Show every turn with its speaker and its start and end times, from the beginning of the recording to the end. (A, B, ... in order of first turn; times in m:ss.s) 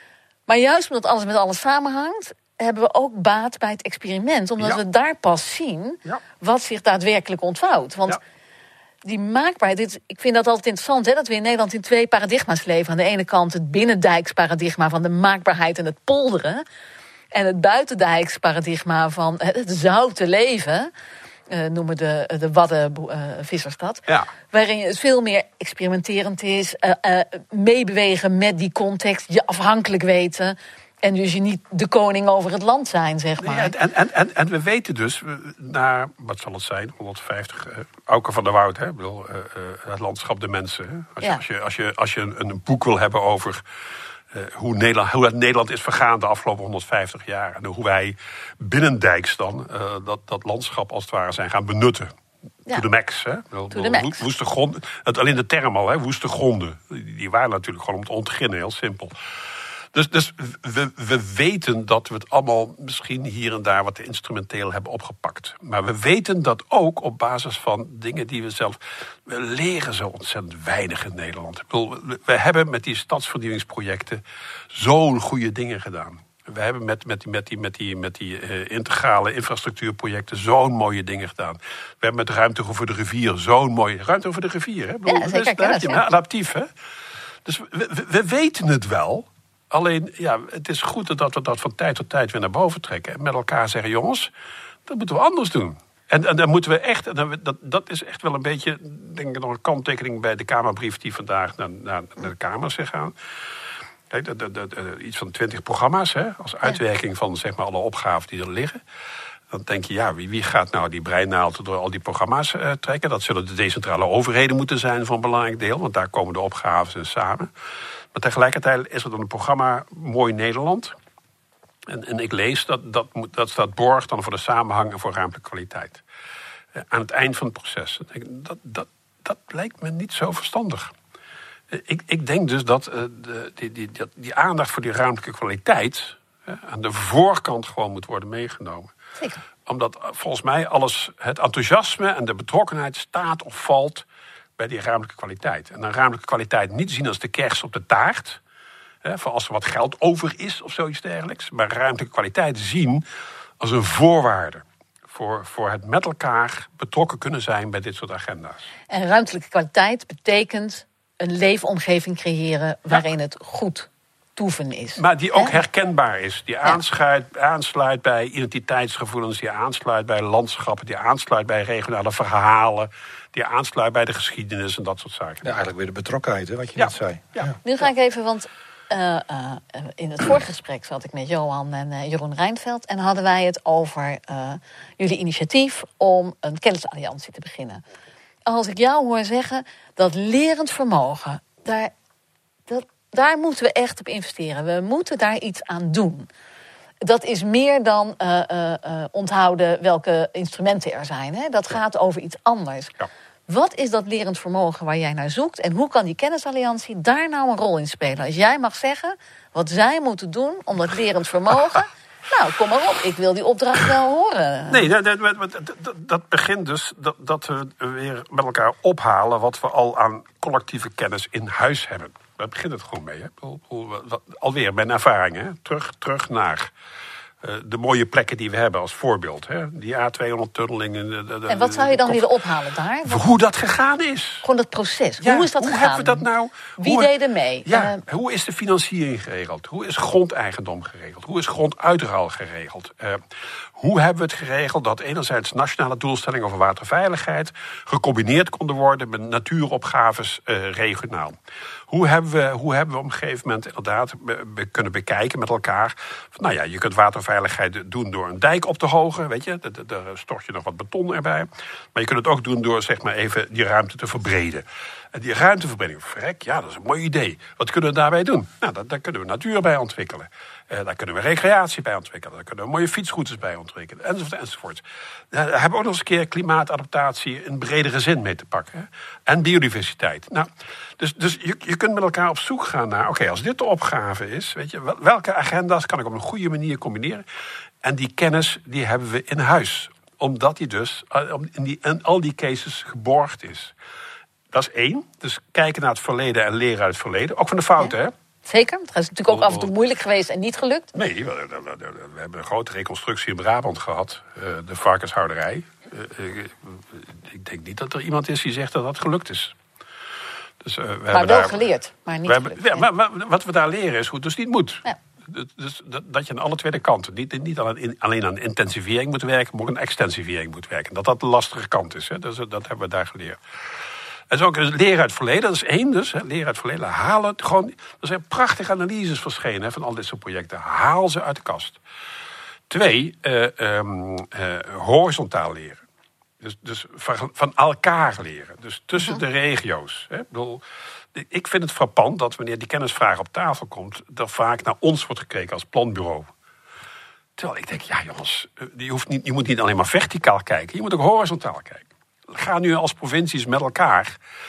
0:00.5-0:08.2 A
0:09.0-0:16.6 A
0:17.3-0:20.9 A
0:21.5-0:33.7 A
0:33.4-0:43.6 B
0:44.3-0:52.1 B
0:52.7-0:59.1 B
0:53.7-0:54.2 A
0:59.9-1:14.2 B
1:14.7-1:26.7 B
1:25.1-1:26.0 A
1:27.4-1:34.3 B
1:34.9-1:43.1 B
1:44.1-1:48.8 B
1:49.5-1:57.5 B
1:58.1-2:00.9 B
2:01.9-2:06.0 B
2:06.8-2:10.9 B
2:11.7-2:18.9 B
2:19.6-2:24.0 B
2:24.6-2:28.4 B
2:29.0-2:33.0 B
2:33.6-2:38.7 B
2:38.9-2:45.6 A
2:45.0-2:55.6 B
2:55.4-2:57.6 C
2:56.8-2:57.5 B
2:57.6-3:07.8 A
3:08.5-3:11.9 A
3:12.7-3:16.3 A
3:17.0-3:22.9 A
3:23.5-3:34.9 A
3:34.7-3:46.7 B
3:47.4-3:52.3 B
3:51.5-3:53.2 A
3:53.0-3:54.4 B
3:54.4-3:56.2 A
3:55.2-3:57.1 B
3:56.8-3:58.0 A
3:57.7-4:03.2 B
4:03.8-4:11.4 B
4:11.9-4:47.2 B
4:47.8-4:53.7 B
4:54.5-4:58.1 B
4:58.4-5:00.9 A
4:59.3-4:59.7 B
5:00.9-5:09.6 B
5:10.6-5:11.6 B
5:11.1-5:12.8 A
5:12.2-5:23.4 B
5:24.3-5:31.8 B
5:32.7-5:35.8 B
5:36.4-5:40.6 B
5:41.1-5:46.3 B
5:47.4-5:54.2 B